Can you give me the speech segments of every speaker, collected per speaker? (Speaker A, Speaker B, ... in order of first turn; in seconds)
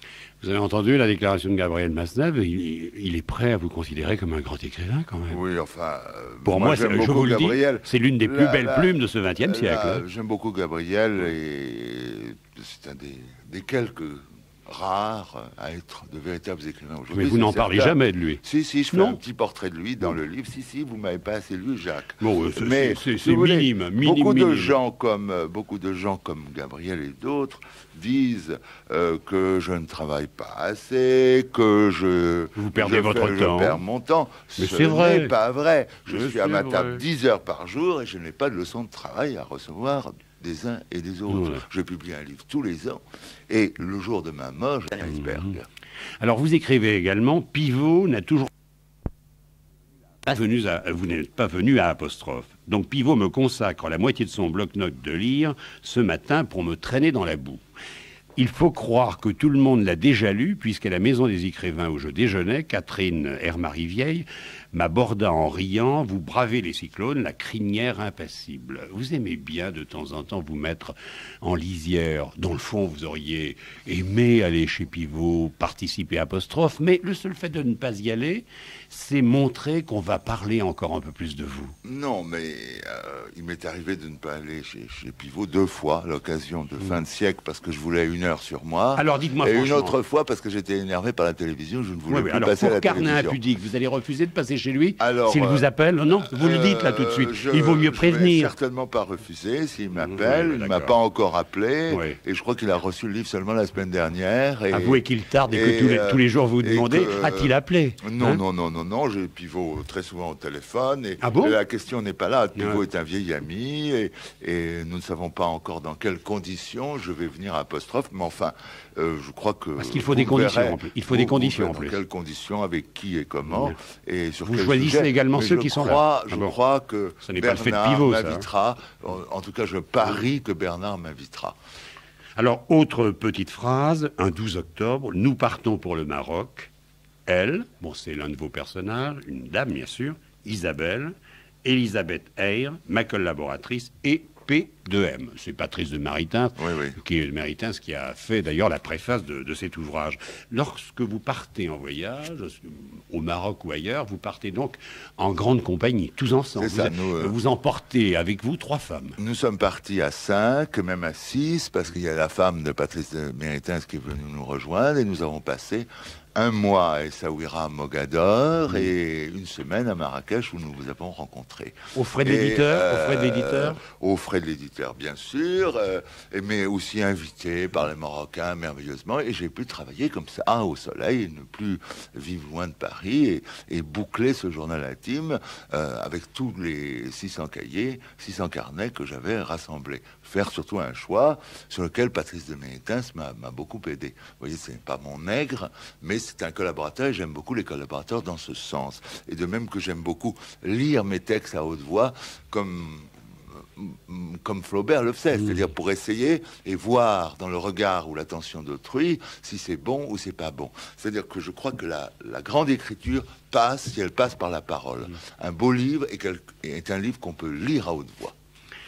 Speaker A: 0.4-5.4, 6.5-10.0, 17.1-18.4, 18.9-19.2, 22.2-24.8, 32.6-33.8, 34.6-35.3, 36.1-37.0, 41.3-41.6, 46.2-48.5, 50.2-57.6, 58.4-81.7, 89.0-90.0, 92.1-98.5, 100.0-101.0, 101.9-102.2, 104.7-108.4, 111.2-111.6, 112.6-112.8, 119.8-122.0, 123.5-123.8, 124.4-126.5, 127.2-128.4, 132.4-136.7, 137.3-141.1, 141.6-159.2, 171.9-173.8
Speaker B: 5.3-45.7, 81.8-93.4, 95.0-95.7, 96.3-131.6, 146.6-147.0, 156.6-157.3, 159.2-218.3